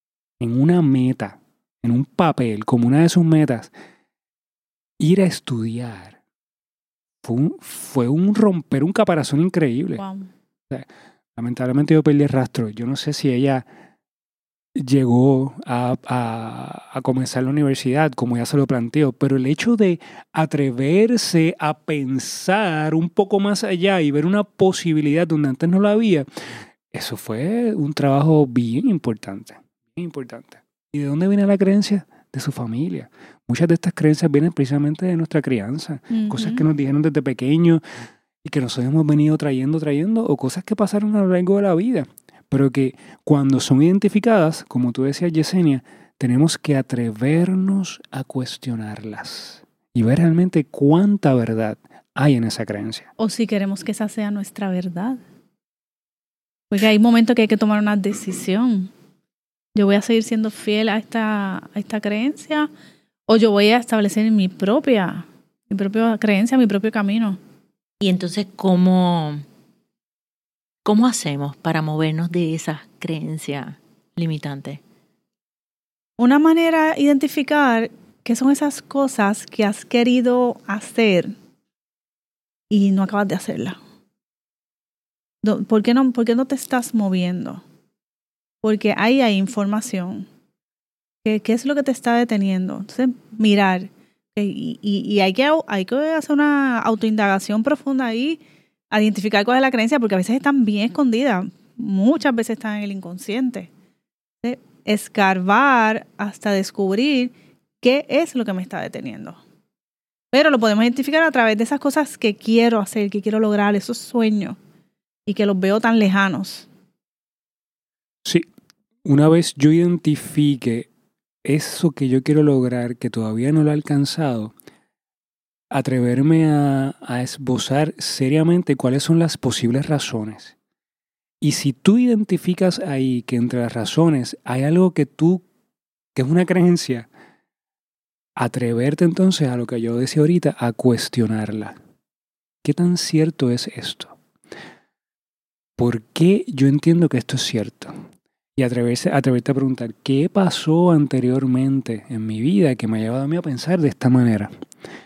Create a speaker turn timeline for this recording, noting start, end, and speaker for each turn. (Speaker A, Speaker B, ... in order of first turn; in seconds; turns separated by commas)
Speaker A: 0.4-3.7, Speaker A: 5.0-6.2, Speaker A: 7.2-10.0, Speaker B: 10.0-10.3, Speaker A: 10.7-13.7, Speaker A: 14.7-37.8, Speaker B: 36.1-36.6, Speaker A: 38.4-53.1, Speaker B: 53.2-55.2, Speaker B: 56.7-58.9, Speaker B: 59.7-62.7, Speaker B: 63.3-67.4, Speaker C: 68.0-69.4, Speaker C: 70.8-74.8, Speaker B: 76.2-81.3, Speaker B: 82.7-83.8, Speaker B: 85.4-87.6, Speaker B: 88.6-90.3, Speaker B: 91.2-103.7, Speaker B: 104.4-109.4, Speaker B: 110.3-114.6, Speaker B: 115.2-116.7, Speaker A: 119.0-120.9, Speaker A: 121.4-124.5, Speaker A: 125.7-130.5, Speaker A: 131.4-135.4, Speaker A: 136.1-137.1, Speaker A: 138.3-141.8, Speaker A: 142.6-144.2, Speaker A: 145.8-148.0, Speaker A: 148.6-154.5